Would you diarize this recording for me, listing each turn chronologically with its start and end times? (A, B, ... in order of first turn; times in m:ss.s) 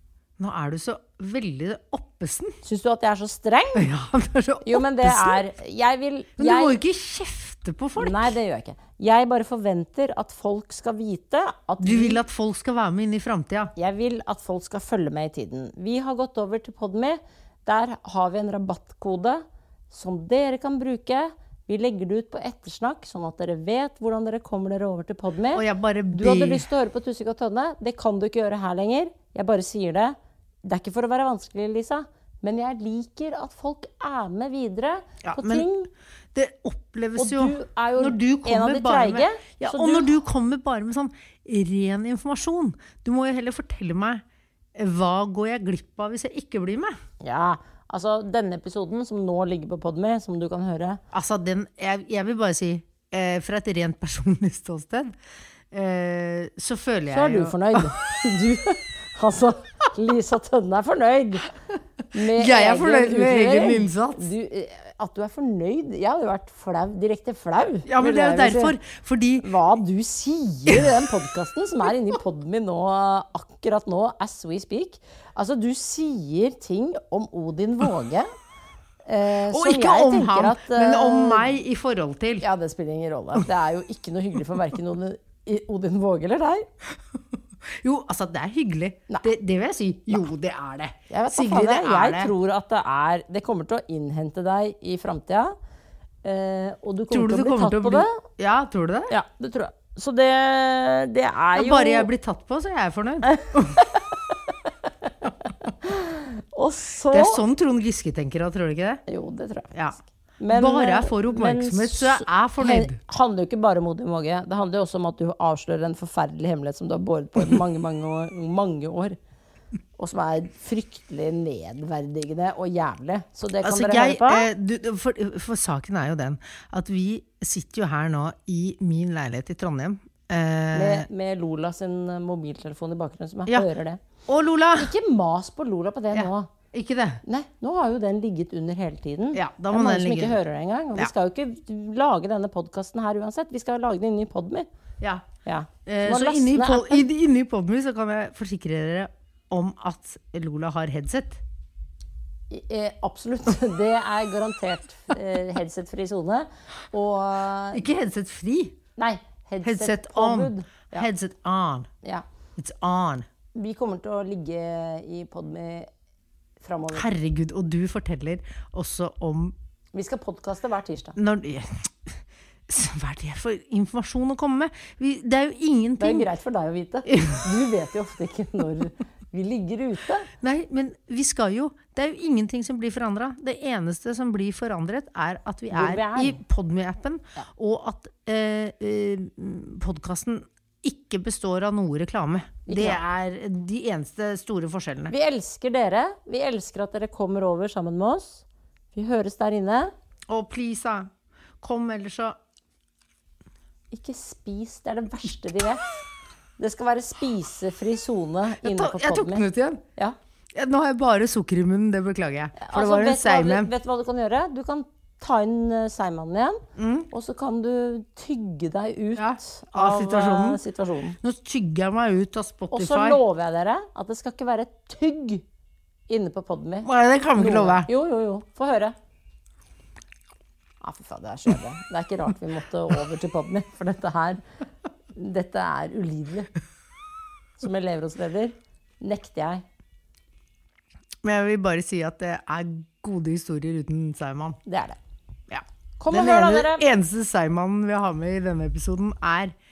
0:00.4-0:02.6 A
0:02.6-0:03.9 B
0:03.8-0:05.4 A
0:04.6-0:06.8 B
0:06.4-0:08.3 A
0:08.0-0:12.2 B
0:11.8-0:13.7 A
0:13.8-0:35.9 B
0:25.5-0:26.7 A
0:35.2-0:35.7 A
0:36.3-0:44.2 A
0:37.2-0:40.2 B
0:44.8-0:46.9 A
0:47.2-0:51.0 B
0:51.1-0:55.1 A
0:55.7-0:57.9 A
0:57.1-1:01.5 B
1:02.1-1:08.8 B
1:02.1-1:04.3 A
1:07.8-1:09.5 A
1:09.4-1:18.3 B
1:10.7-1:11.0 A
1:19.0-1:21.6 B
1:19.4-1:22.4 A
1:22.4-1:26.6 B
1:27.8-1:32.3 A
1:31.1-1:35.5 B
1:36.2-1:38.2 B
1:37.1-1:39.1 A
1:39.1-1:42.1 B
1:41.5-1:43.9 A
1:43.3-1:47.4 B
1:47.1-1:49.0 A
1:49.1-1:59.2 B
1:49.7-1:53.0 A
2:00.0-2:04.5 B
2:03.6-2:11.1 A
2:10.7-2:14.0 B
2:14.3-2:14.9 A
2:14.7-2:16.5 B
2:16.1-2:17.2 A
2:17.2-2:24.7 B
2:19.3-2:20.4 A
2:25.0-2:25.2 A
2:25.4-2:27.0 B
2:25.8-2:31.4 A
2:32.5-2:37.8 B
2:37.7-2:38.8 A
2:39.0-2:41.1 B
2:39.6-2:41.9 A
2:42.6-2:43.2 A
2:43.5-2:45.9 B
2:46.6-2:47.0 B
2:46.9-2:49.5 A
2:49.9-2:51.2 B
2:51.2-2:52.1 A
2:52.7-2:56.3 A
2:56.0-3:00.3 B
2:57.1-2:57.4 A
3:00.4-3:15.1 A
3:05.7-3:06.4 B
3:12.7-3:13.0 B
3:15.1-3:19.9 B
3:20.3-3:21.1 A
3:21.6-3:22.4 A
3:23.9-3:25.8 B
3:26.6-3:29.4 B
3:28.6-3:29.8 A
3:30.5-3:33.7 A
3:32.6-3:41.2 B
3:36.8-3:37.1 A
3:39.2-3:40.6 A
3:41.2-3:43.2 A
3:42.7-3:45.4 B
3:46.1-3:48.9 B
3:46.8-3:47.9 A
3:50.8-3:54.4 B
3:55.1-3:56.5 B
3:57.6-3:59.6 B
4:01.2-4:04.6 A
4:04.6-4:05.0 B
4:05.5-4:09.5 A
4:06.0-4:06.8 B